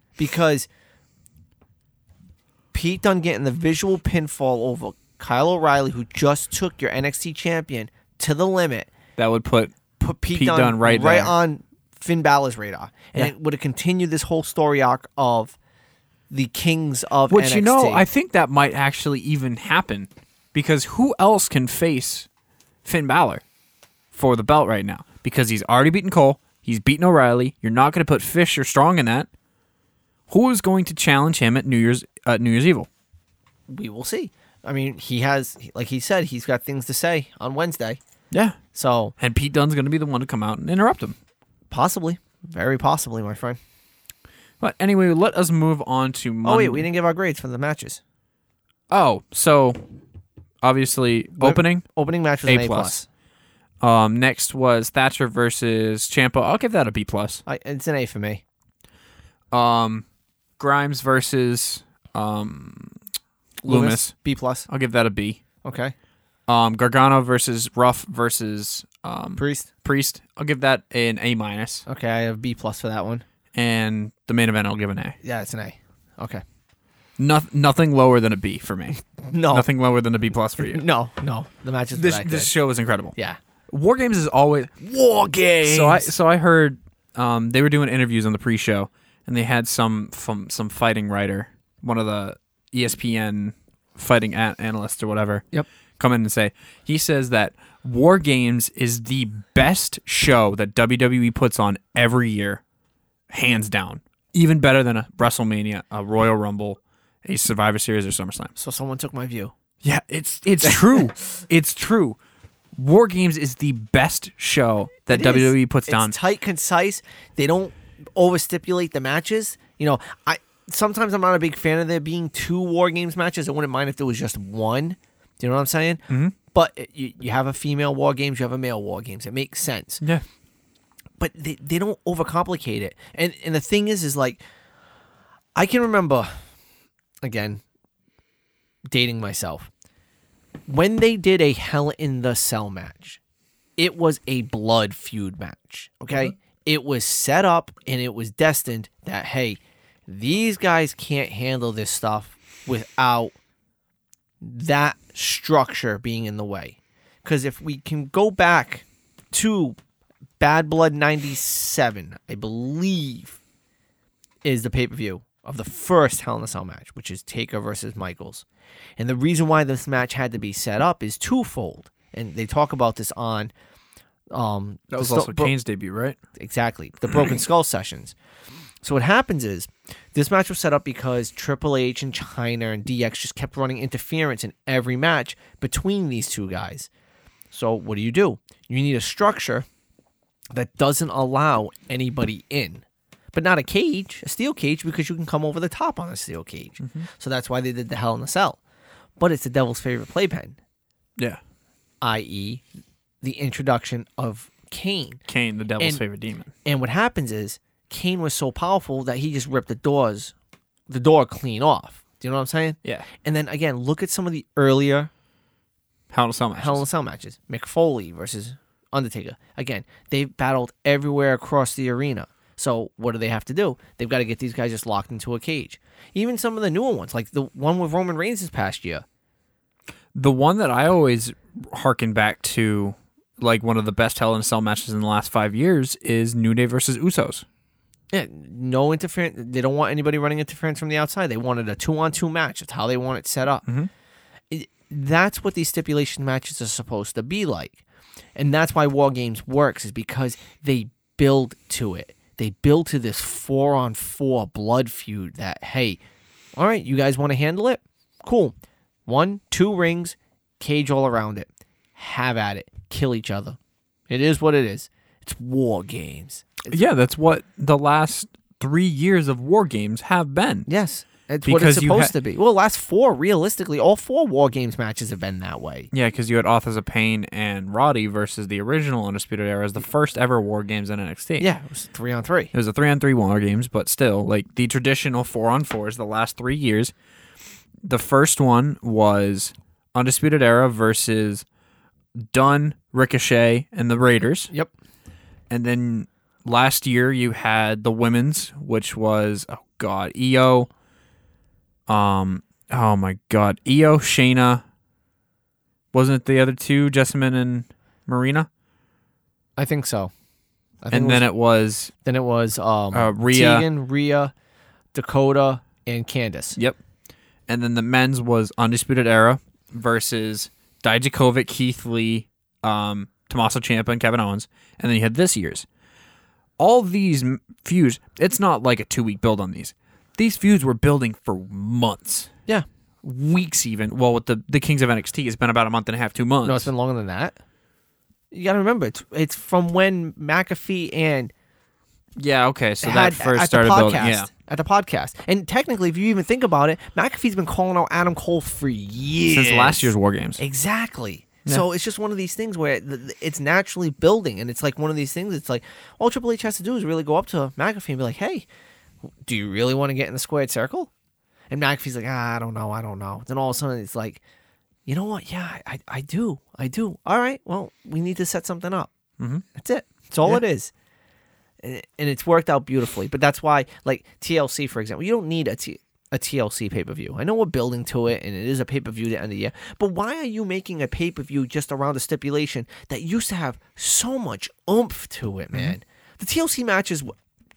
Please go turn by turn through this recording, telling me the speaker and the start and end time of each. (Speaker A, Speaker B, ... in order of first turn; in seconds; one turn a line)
Speaker A: 0.2-0.7
Speaker A: 2.7-8.9
Speaker B: 9.2-9.8
Speaker A: 10.0-15.6
Speaker B: 10.3-11.3
Speaker A: 16.3-18.0
Speaker B: 17.3-22.3
Speaker B: 22.8-23.4
Speaker B: 24.1-29.3
Speaker B: 30.3-32.9
Speaker A: 33.7-38.0
Speaker B: 38.3-38.6
Speaker A: 38.7-39.1
Speaker B: 39.2-41.1
Speaker A: 41.7-43.6
Speaker B: 44.6-46.9
Speaker A: 46.4-48.0
Speaker B: 48.9-49.8
Speaker B: 50.6-51.8
Speaker A: 51.4-53.0
Speaker B: 52.5-53.0
Speaker B: 53.8-57.4
Speaker A: 57.5-58.4
Speaker B: 59.5-60.0
Speaker B: 60.6-63.0
Speaker B: 63.6-64.1
Speaker A: 63.6-64.7
Speaker B: 64.7-65.4
Speaker A: 65.6-65.9
Speaker B: 66.5-71.8
Speaker A: 69.4-69.7
Speaker A: 71.8-73.2
Speaker B: 73.5-75.2
Speaker A: 75.2-76.4
Speaker B: 77.2-80.8
Speaker A: 79.2-79.7
Speaker A: 80.6-82.5
Speaker B: 81.9-83.1
Speaker B: 83.7-84.7
Speaker A: 84.8-86.1
Speaker B: 85.6-95.5
Speaker B: 96.0-102.6
Speaker B: 103.3-108.5
Speaker A: 108.5-109.5
Speaker B: 109.8-112.2
Speaker A: 110.6-111.1
Speaker B: 112.8-116.2
Speaker A: 115.1-130.0
Speaker B: 126.1-126.3
Speaker A: 131.2-134.4
Speaker A: 135.5-136.3
Speaker A: 137.2-137.6
Speaker A: 138.9-139.7
Speaker A: 140.7-143.2
Speaker A: 143.8-153.3
Speaker A: 154.4-159.8
Speaker A: 160.4-163.4
Speaker A: 164.4-168.4
Speaker A: 169.0-173.5
Speaker A: 174.3-175.5
Speaker B: 174.9-176.2
Speaker A: 176.3-178.1
Speaker A: 178.8-186.9
Speaker A: 187.5-189.7
Speaker A: 190.5-198.6
Speaker B: 196.8-197.1
Speaker A: 199.2-200.6
Speaker A: 202.0-202.6
Speaker A: 203.2-205.2
Speaker B: 205.3-206.5
Speaker A: 206.6-210.3
Speaker A: 210.9-215.1
Speaker B: 216.1-216.8
Speaker A: 216.6-229.0
Speaker B: 230.1-237.4
Speaker A: 238.1-243.6
Speaker A: 244.5-247.8
Speaker A: 248.3-256.0
Speaker A: 256.5-258.5
Speaker A: 259.1-263.6
Speaker A: 264.1-266.8
Speaker B: 266.7-270.7
Speaker A: 270.7-275.9
Speaker B: 271.4-272.1
Speaker B: 275.9-281.5
Speaker A: 281.4-282.5
Speaker B: 282.5-286.9
Speaker B: 287.8-291.4
Speaker B: 292.3-294.5
Speaker B: 295.5-300.7
Speaker B: 301.9-304.6
Speaker B: 305.9-308.5
Speaker A: 309.6-310.1
Speaker A: 310.8-311.2
Speaker B: 310.9-311.9
Speaker A: 312.0-314.3
Speaker B: 312.9-313.6
Speaker A: 314.9-316.6
Speaker B: 317.5-325.6
Speaker B: 326.6-332.3
Speaker B: 333.0-336.7
Speaker A: 336.4-337.4
Speaker A: 338.3-341.3
Speaker B: 342.2-344.3
Speaker A: 342.8-358.4
Speaker B: 349.3-350.4
Speaker A: 359.2-360.9
Speaker A: 361.5-364.2
Speaker A: 364.9-368.9
Speaker A: 369.5-370.7
Speaker A: 371.6-387.1